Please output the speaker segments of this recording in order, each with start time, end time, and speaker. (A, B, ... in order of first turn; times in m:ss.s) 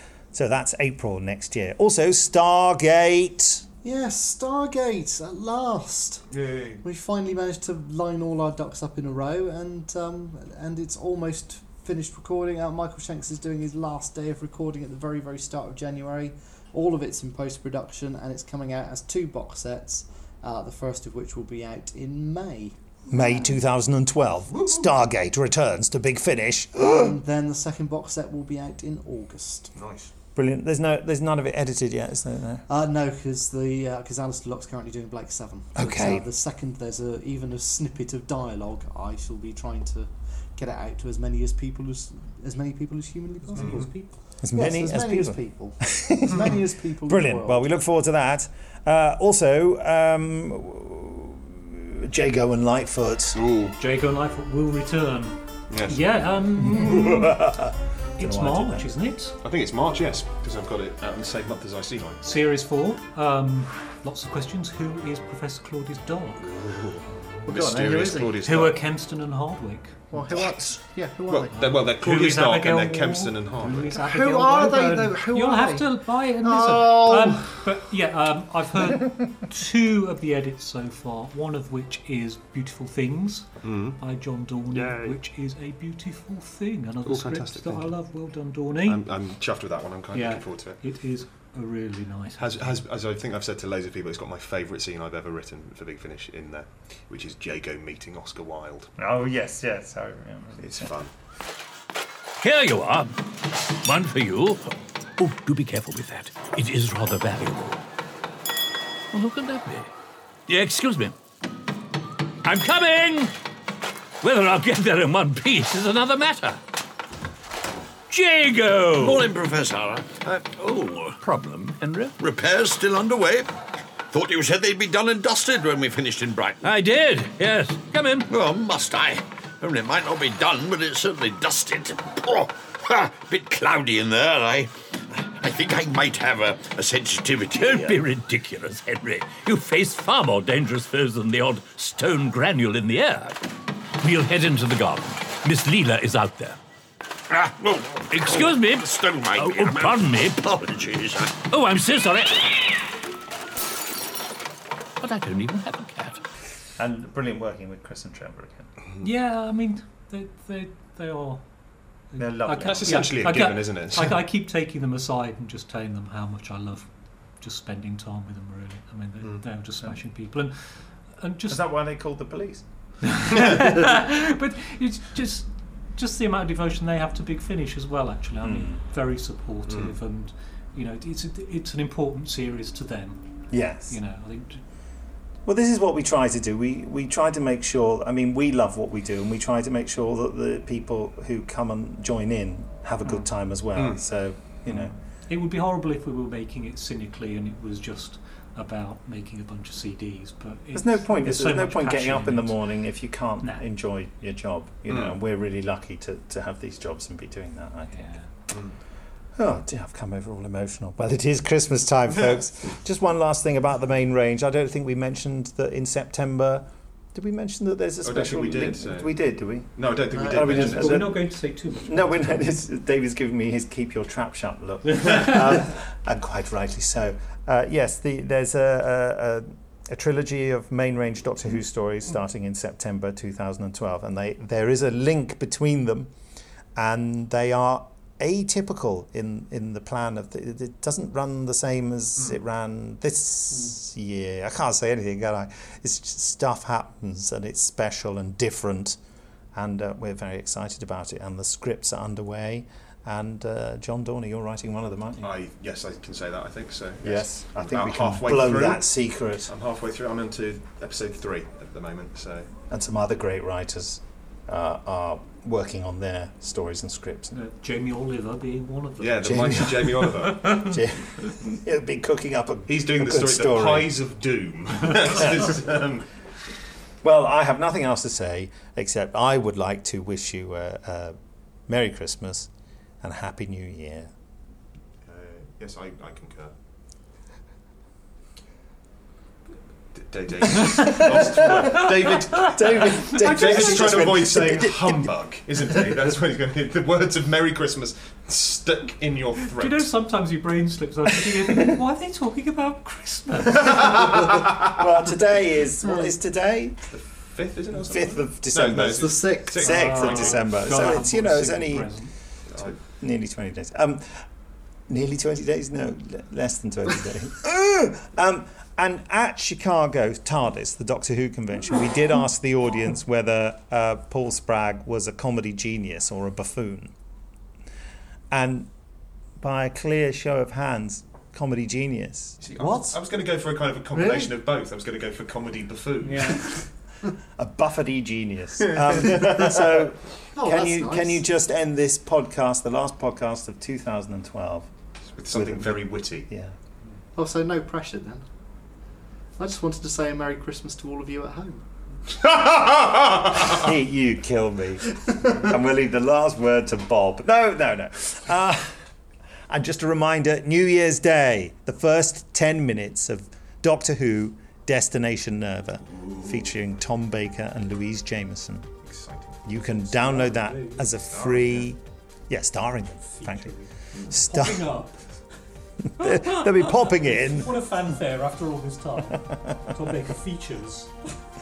0:00.3-0:03.6 A
0:03.8-0:06.2 B
0:06.3-0:06.8 C
0:06.8-0:23.6 B
0:23.1-0:27.1 A
0:26.8-0:29.7 B
0:29.7-0:30.1 C
0:30.3-0:32.6 A
0:32.7-0:47.7 B
0:35.7-0:36.3 A
0:43.4-0:44.2 D
0:43.6-0:43.9 C
0:44.4-0:53.4 A
0:53.3-0:53.8 C
0:53.8-0:57.3 D
0:55.7-0:56.2 C
0:56.6-0:58.9 A
0:58.2-0:59.4 D
0:59.4-1:02.2 C
1:02.2-1:06.5 D
1:06.5-1:08.7 C
1:07.1-1:07.4 D
1:07.5-1:08.6 B
1:08.4-1:10.5 D
1:10.1-1:11.6 B
1:11.3-1:13.9 C
1:11.5-1:29.0 D
1:13.6-1:15.9 B
1:16.4-1:17.4 B
1:23.6-1:24.0 C
1:27.0-1:27.9 C
1:28.8-1:30.8 C
1:30.1-1:32.8 D
1:32.4-1:38.9 C
1:39.0-1:40.9 A
1:40.6-1:41.1 C
1:42.4-1:43.2 E
1:43.8-1:47.8 E
1:49.1-1:49.9 E
1:50.5-1:51.1 E
1:52.4-1:53.3 E
1:54.2-1:56.6 E
1:58.1-1:59.3 E
1:59.0-2:01.1 F
2:00.9-2:02.1 E
2:02.2-2:03.5 F
2:04.1-2:06.6 F
2:06.6-2:08.3 E
2:08.3-2:18.0 F
2:17.5-2:23.4 E
2:24.0-2:26.6 E
2:27.3-2:31.4 F
2:28.1-2:30.7 E
2:31.4-2:32.4 E
2:35.0-2:36.2 E
2:36.8-2:38.7 A
2:39.0-2:51.6 D
2:42.2-2:43.1 A
2:42.6-2:44.2 C
2:51.5-2:52.6 A
2:53.2-3:04.6 D
2:58.4-2:58.8 A
2:59.7-2:59.9 C
3:03.5-3:04.0 A
3:05.4-3:14.9 A
3:13.7-3:14.0 C
3:14.7-3:22.7 D
3:20.7-3:28.1 A
3:24.9-3:25.1 C
3:27.9-3:28.3 D
3:28.5-3:28.8 C
3:29.4-3:41.2 A
3:32.1-3:32.4 C
3:38.0-3:39.1 C
3:39.7-3:41.1 C
3:40.1-3:40.5 B
3:40.4-3:42.5 D
3:41.8-3:56.1 A
3:45.0-3:45.4 D
3:56.8-4:09.0 A
4:09.5-4:15.3 A
4:15.2-4:18.9 C
4:17.0-4:19.5 A
4:19.4-4:22.5 C
4:22.7-4:27.4 A
4:27.3-4:29.7 D
4:29.0-4:30.7 C
4:29.2-4:33.9 A
4:30.3-4:30.6 D
4:32.7-4:36.0 C
4:37.0-4:41.2 A
4:41.7-4:42.5 A
4:43.0-4:44.1 A
4:45.0-4:46.5 C
4:49.9-4:59.9 C
4:50.6-4:55.0 A
4:52.7-4:54.1 D
4:59.6-5:03.9 D
5:01.3-5:01.6 A
5:03.7-5:04.5 C
5:04.1-5:06.8 A
5:06.9-5:11.0 C
5:07.8-5:14.3 A
5:09.0-5:09.7 B
5:09.6-5:12.1 D
5:12.5-5:12.8 C
5:14.9-5:26.9 A
5:28.3-5:28.7 A
5:29.4-5:32.4 A
5:32.4-5:36.6 C
5:32.6-5:32.9 B
5:33.9-5:34.3 B
5:36.0-5:36.6 D
5:37.4-5:44.7 A
5:38.7-5:39.4 C
5:40.4-5:41.2 B
5:45.2-5:46.3 C
5:45.3-5:46.5 A
5:47.2-5:48.2 B
5:49.4-5:51.6 B
5:52.2-5:58.8 A
5:59.5-6:08.7 A
6:06.0-6:06.3 C
6:08.8-6:09.7 C
6:09.4-6:14.7 A
6:10.0-6:10.9 D
6:10.9-6:11.7 C
6:13.0-6:15.1 D
6:16.0-6:17.6 A
6:16.0-6:20.9 D